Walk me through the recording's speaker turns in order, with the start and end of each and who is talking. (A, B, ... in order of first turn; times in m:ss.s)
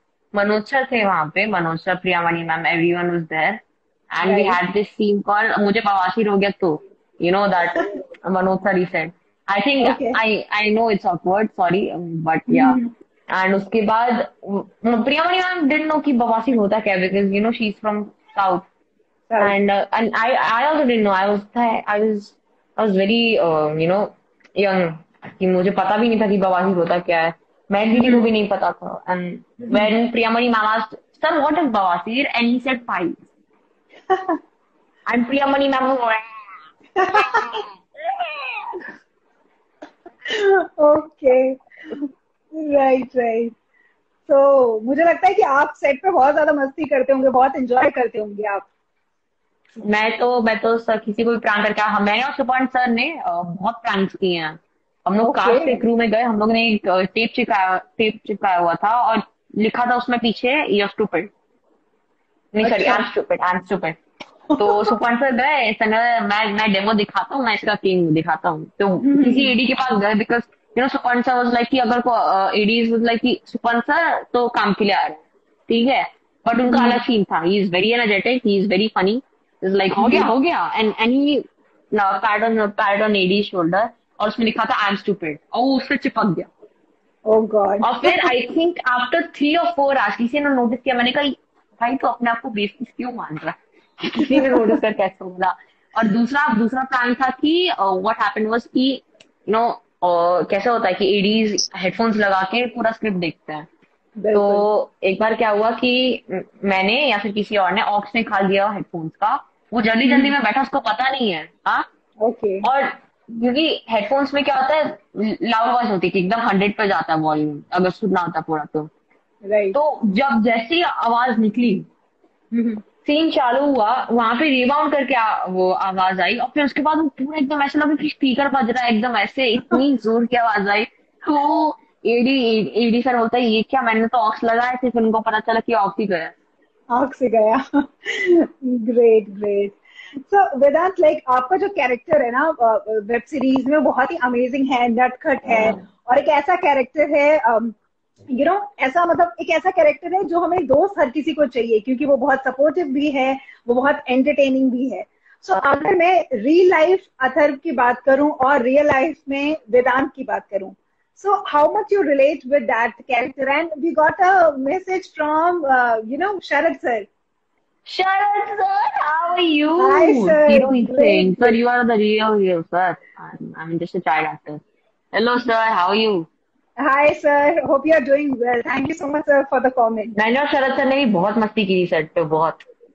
0:00.3-0:12.8 A
0:04.2-0:04.6 B
0:09.8-0:10.2 B
0:12.5-0:12.9 B
0:13.3-0:18.6 A
0:19.3-0:19.6 B
0:19.4-0:33.2 A
0:27.9-0:28.3 B
0:34.1-0:34.4 B
0:35.1-0:36.3 A
0:37.0-0:37.6 B
0:37.1-0:38.8 A
0:40.2-0:43.5 B
0:44.3-0:48.6 B
0:49.8-1:01.3 A
0:55.2-0:55.8 B
1:02.5-1:04.0 A
1:02.6-1:03.0 B
1:04.5-1:04.9 B
1:04.6-1:26.5 A
1:09.0-1:09.5 B
1:16.7-1:17.0 B
1:20.0-1:20.3 B
1:27.3-1:28.3 B
1:27.8-1:43.7 A
1:34.2-1:34.8 B
1:44.2-1:44.6 B
1:44.3-1:51.9 A
1:50.1-1:50.3 B
1:52.2-1:52.6 B
1:52.6-1:58.9 A
1:59.4-1:59.8 B
1:59.7-2:01.9 A
2:02.5-2:02.8 B
2:03.0-2:16.3 A
2:16.9-2:27.8 B
2:28.3-2:47.1 B
2:47.9-2:54.6 A
2:49.8-2:51.6 B
2:55.1-2:56.3 A
2:56.8-3:00.1 B
3:00.1-3:02.6 A